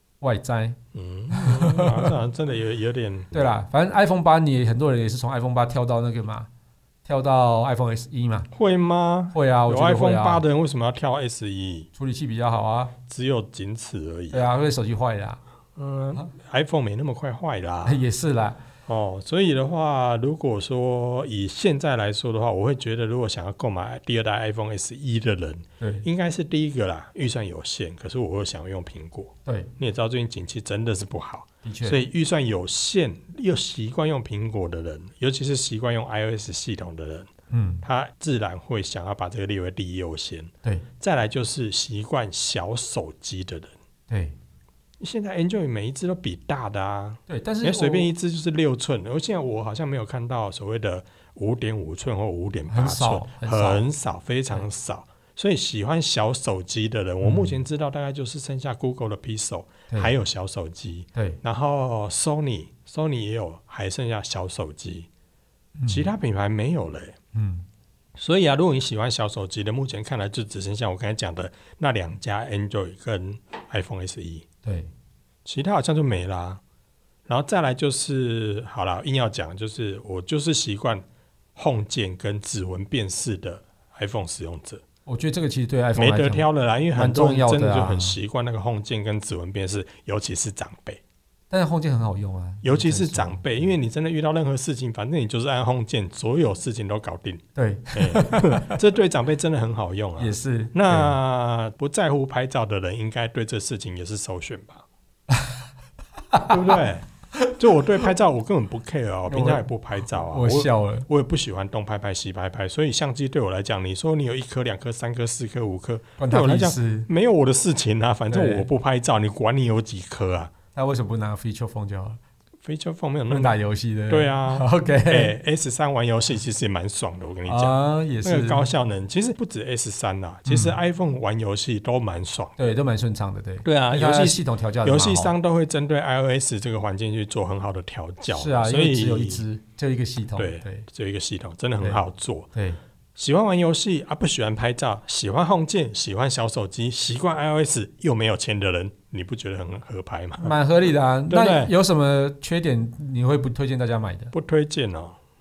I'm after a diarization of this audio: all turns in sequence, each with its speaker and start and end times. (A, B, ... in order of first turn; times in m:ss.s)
0:00.2-0:00.8 A
0:00.9-0:03.5 B
0:01.3-0:02.1 A
0:03.3-0:06.5 A
0:07.1-0:08.5 A
0:08.5-0:11.9 B
0:09.3-0:10.4 A
0:12.0-0:12.9 A
0:13.1-0:14.5 B
0:14.3-0:15.4 A
0:15.8-0:18.0 B
0:17.8-0:18.6 A
0:18.9-0:37.3 B
0:25.8-0:26.1 A
0:31.6-0:32.0 A
0:37.5-0:37.8 A
0:37.8-0:43.7 B
0:44.1-0:44.4 A
0:45.0-1:05.1 B
0:47.3-0:48.1 A
0:52.7-0:53.9 A
0:57.2-0:57.6 A
1:05.8-1:06.1 A
1:05.9-1:07.2 B
1:07.3-1:07.6 A
1:08.2-1:14.5 B
1:14.6-1:14.9 A
1:15.4-1:16.6 B
1:17.3-1:21.0 B
1:21.6-1:24.8 B
1:25.1-1:28.2 A
1:26.0-1:31.0 B
1:31.5-1:33.4 A
1:32.6-1:37.4 B
1:37.6-1:38.8 A
1:37.9-1:44.8 B
1:40.2-1:41.2 A
1:46.3-1:46.8 A
1:46.5-2:00.5 B
1:49.3-1:51.1 A
1:56.2-1:57.1 A
1:58.3-1:58.7 A
2:00.8-2:02.2 A
2:02.6-2:03.5 B
2:03.3-2:05.3 A
2:04.1-2:12.6 B
2:07.5-2:08.6 A
2:10.5-2:10.8 A
2:12.6-2:15.3 A
2:13.6-2:19.4 B
2:18.3-2:20.9 A
2:20.4-2:22.5 B
2:23.2-2:30.6 B
2:30.4-2:34.3 A
2:31.3-2:31.7 B
2:34.3-2:35.2 B